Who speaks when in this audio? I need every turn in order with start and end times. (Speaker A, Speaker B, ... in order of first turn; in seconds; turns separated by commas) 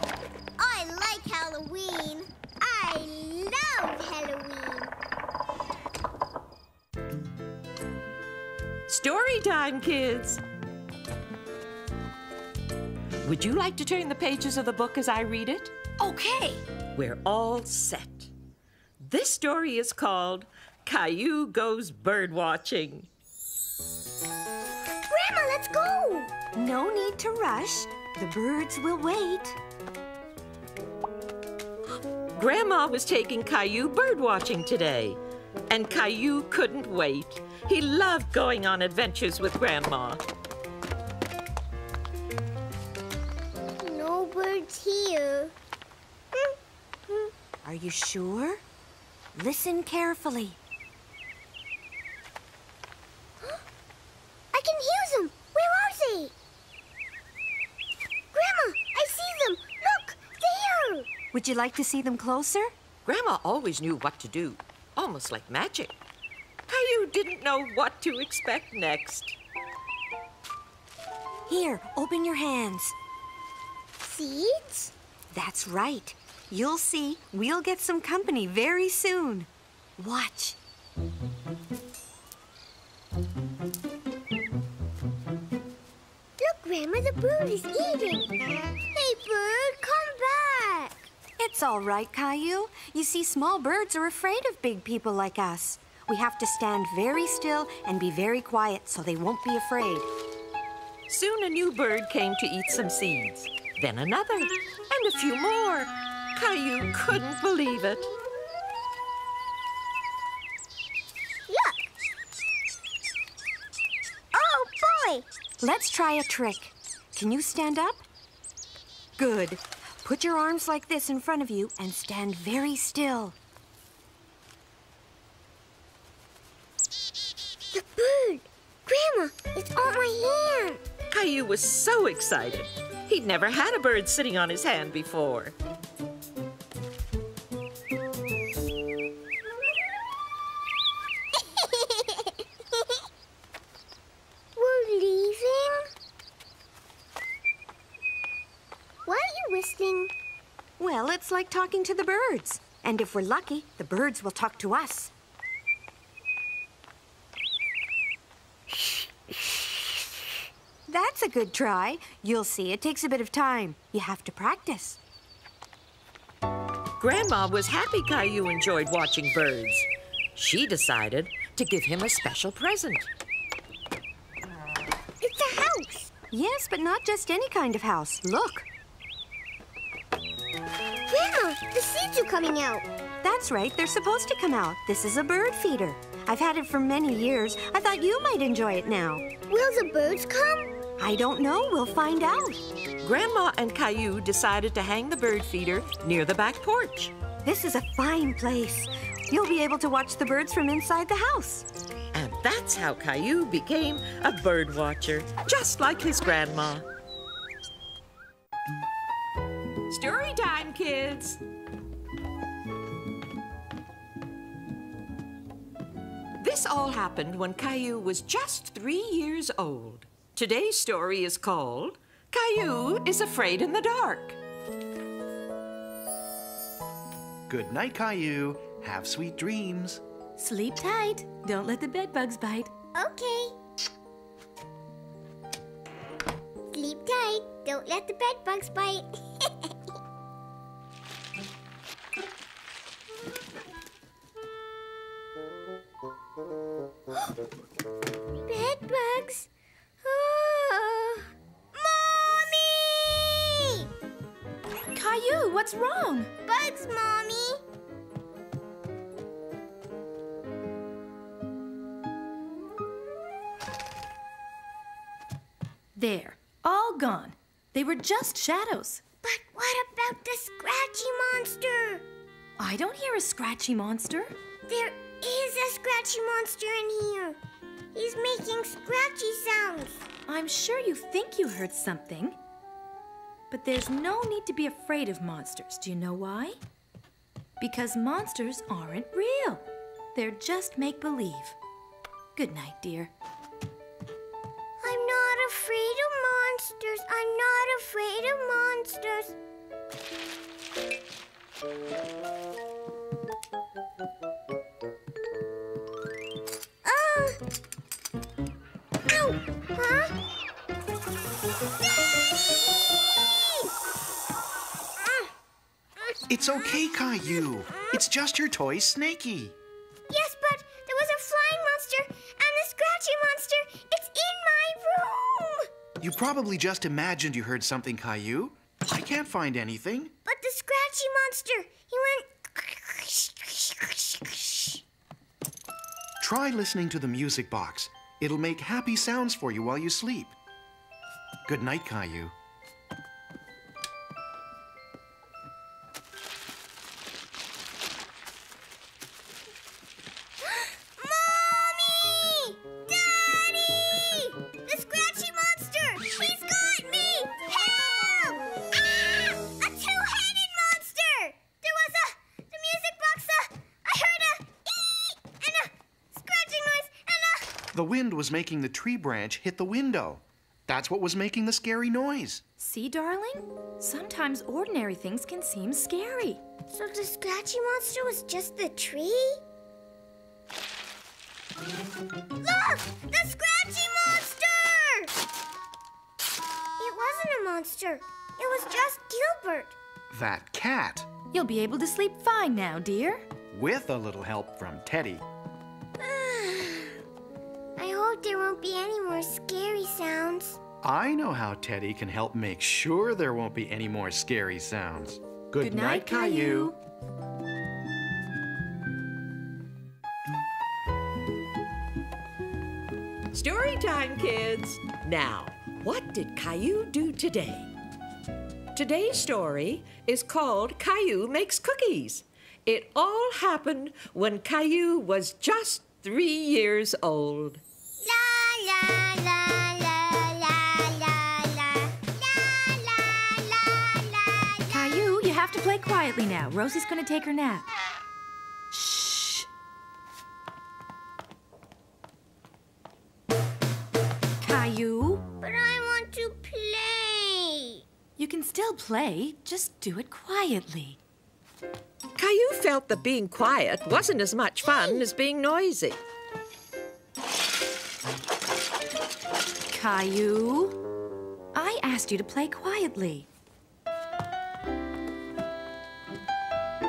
Speaker A: 0.6-4.9, Speaker B: 8.9-10.4, Speaker B: 13.2-15.7, Speaker C: 16.0-16.6, Speaker B: 17.0-18.3, Speaker B: 19.0-23.1, Speaker A: 25.1-26.4, Speaker D: 26.5-29.6, Speaker B: 32.4-40.2, Speaker A: 43.8-45.5, Speaker D: 47.6-48.6, Speaker D: 49.3-50.6, Speaker A: 54.5-56.3, Speaker A: 58.3-61.1, Speaker D: 61.3-62.7, Speaker B: 63.1-66.0, Speaker B: 66.7-69.4, Speaker D: 71.5-73.0, Speaker A: 74.0-74.9, Speaker D: 75.3-80.6, Speaker A: 86.4-88.4, Speaker A: 88.9-91.1, Speaker D: 91.4-100.1, Speaker B: 101.1-108.1, Speaker A: 111.5-111.8, Speaker A: 114.3-115.3, Speaker D: 115.6-118.0, Speaker D: 119.2-123.3, Speaker A: 127.7-130.8, Speaker B: 131.1-135.6, Speaker A: 141.4-142.3, Speaker A: 144.6-145.9, Speaker A: 149.1-150.1, Speaker D: 150.8-155.1, Speaker D: 158.7-159.6, Speaker D: 160.9-165.0, Speaker B: 167.0-173.1, Speaker A: 175.2-176.1, Speaker D: 176.3-178.7, Speaker A: 181.1-182.8, Speaker D: 183.2-189.3, Speaker A: 189.5-190.8, Speaker D: 191.0-192.6, Speaker B: 193.0-197.2, Speaker D: 197.4-201.7, Speaker B: 202.1-206.9, Speaker B: 209.9-211.4, Speaker B: 216.4-224.4, Speaker E: 227.5-230.0, Speaker C: 230.4-232.7, Speaker A: 232.9-233.6, Speaker A: 236.7-239.7, Speaker A: 248.4-249.5, Speaker A: 250.0-253.9, Speaker C: 254.9-256.3, Speaker A: 256.4-257.6, Speaker C: 266.0-269.0, Speaker A: 269.2-272.0, Speaker C: 272.6-274.3, Speaker A: 274.7-277.4, Speaker A: 277.9-280.1, Speaker C: 280.3-282.4, Speaker C: 283.5-286.6, Speaker C: 287.6-291.6, Speaker C: 292.4-293.1, Speaker A: 294.8-299.4, Speaker A: 306.8-307.4, Speaker A: 309.1-310.2, Speaker A: 313.2-313.6, Speaker E: 316.3-319.6, Speaker A: 320.1-325.7, Speaker E: 326.0-330.1, Speaker A: 330.3-334.8, Speaker E: 336.2-340.4, Speaker E: 341.5-342.4, Speaker A: 350.4-367.6, Speaker E: 367.7-372.4, Speaker C: 372.6-376.4, Speaker A: 376.7-379.4, Speaker A: 382.4-385.1, Speaker A: 386.8-389.8, Speaker E: 390.1-391.1, Speaker C: 391.3-393.2, Speaker E: 393.5-395.2, Speaker A: 396.0-397.0, Speaker A: 397.8-400.6, Speaker E: 400.8-406.7, Speaker C: 405.6-406.8, Speaker B: 413.3-417.7, Speaker B: 418.7-427.6, Speaker A: 428.0-434.8, Speaker C: 434.7-437.7, Speaker C: 438.7-439.5, Speaker C: 444.4-445.2, Speaker A: 445.4-447.8, Speaker C: 448.2-451.0, Speaker B: 452.2-456.0, Speaker A: 454.6-455.1, Speaker C: 459.7-460.8, Speaker C: 461.5-463.3